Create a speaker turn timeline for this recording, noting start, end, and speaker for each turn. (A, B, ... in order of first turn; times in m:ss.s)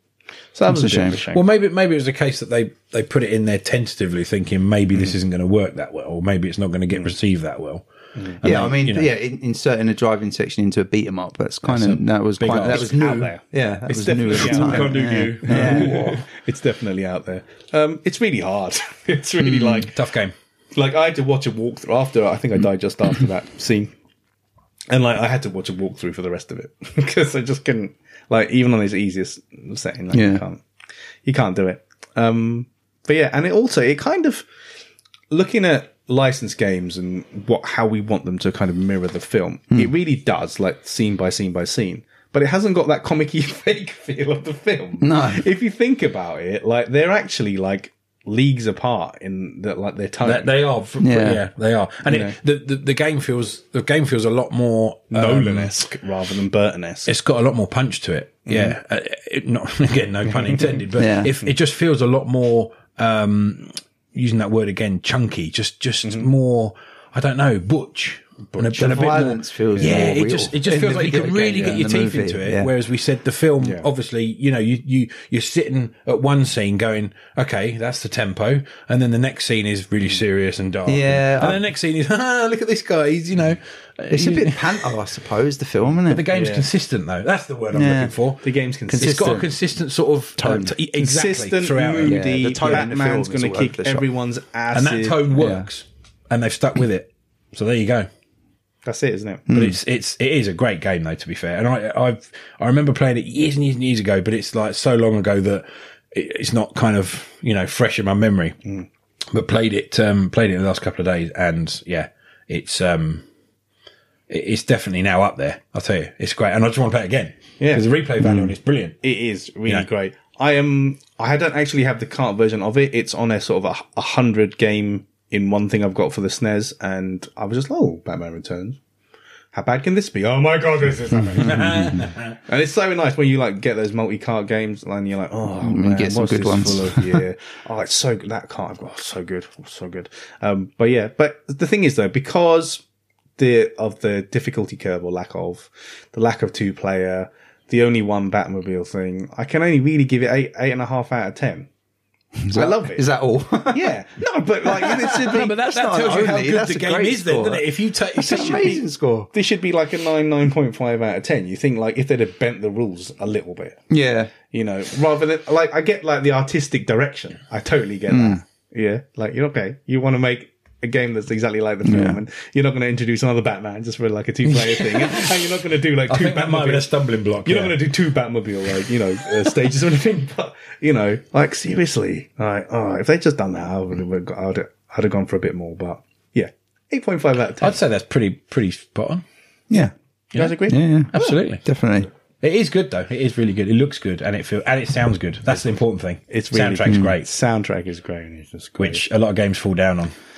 0:00.5-0:01.4 A
0:00.7-0:01.2 B
0:01.3-0:07.8 C
0:08.2-0:08.4 A
0:08.4-0:09.1 C
0:08.4-0:16.2 B
0:11.6-0:13.1 C
0:12.7-0:20.0 A
0:14.3-0:16.2 C
0:19.4-0:19.9 B
0:19.8-0:20.3 C
0:20.7-0:23.9 A
0:24.9-0:30.6 A
0:30.1-0:30.4 B
0:31.2-0:34.5 A
0:35.3-0:50.5 A
0:45.0-0:45.4 B
0:50.2-0:55.7 C
0:51.0-0:51.4 B
0:52.1-0:52.4 A
0:55.1-0:57.1 A
0:57.1-1:24.9 C
0:58.5-0:58.8 A
1:01.0-1:01.4 B
1:06.0-1:06.3 A
1:08.5-1:09.2 A
1:08.8-1:12.7 B
1:13.6-1:13.9 A
1:20.9-1:21.6 B
1:24.1-1:26.3 B
1:26.1-1:32.9 C
1:26.3-1:26.7 A
1:27.7-1:28.2 B
1:28.4-1:29.4 A
1:28.9-1:29.5 B
1:30.4-1:30.8 B
1:31.0-1:35.3 A
1:32.0-1:34.0 B
1:34.7-1:38.1 C
1:35.3-1:35.7 B
1:38.8-1:39.5 A
1:39.5-1:39.8 B
1:39.5-1:48.6 C
1:49.3-1:53.2 C
1:54.3-1:59.0 C
1:57.6-1:57.8 A
1:58.2-1:58.5 B
1:59.0-2:08.8 A
2:09.5-2:22.8 A
2:11.4-2:12.4 C
2:11.4-2:12.1 B
2:15.6-2:17.2 B
2:23.4-2:31.7 A
2:32.4-2:33.9 B
2:32.5-2:33.1 A
2:33.7-2:35.5 A
2:34.6-2:39.3 B
2:35.1-2:38.8 C
2:39.3-2:43.8 A
2:43.9-2:44.3 B
2:44.5-2:56.9 A
2:48.1-2:48.4 B
2:51.8-2:52.2 B
2:54.5-2:55.5 C
2:56.1-2:57.9 C
2:57.4-3:07.8 A
3:07.6-3:09.2 C
3:10.3-3:10.6 C
3:10.3-3:11.4 A
3:10.7-3:11.1 B
3:11.1-3:11.6 C
3:11.6-3:12.1 B
3:12.4-3:17.3 C
3:16.3-3:19.0 A
3:16.9-3:17.1 B
3:18.8-3:20.1 C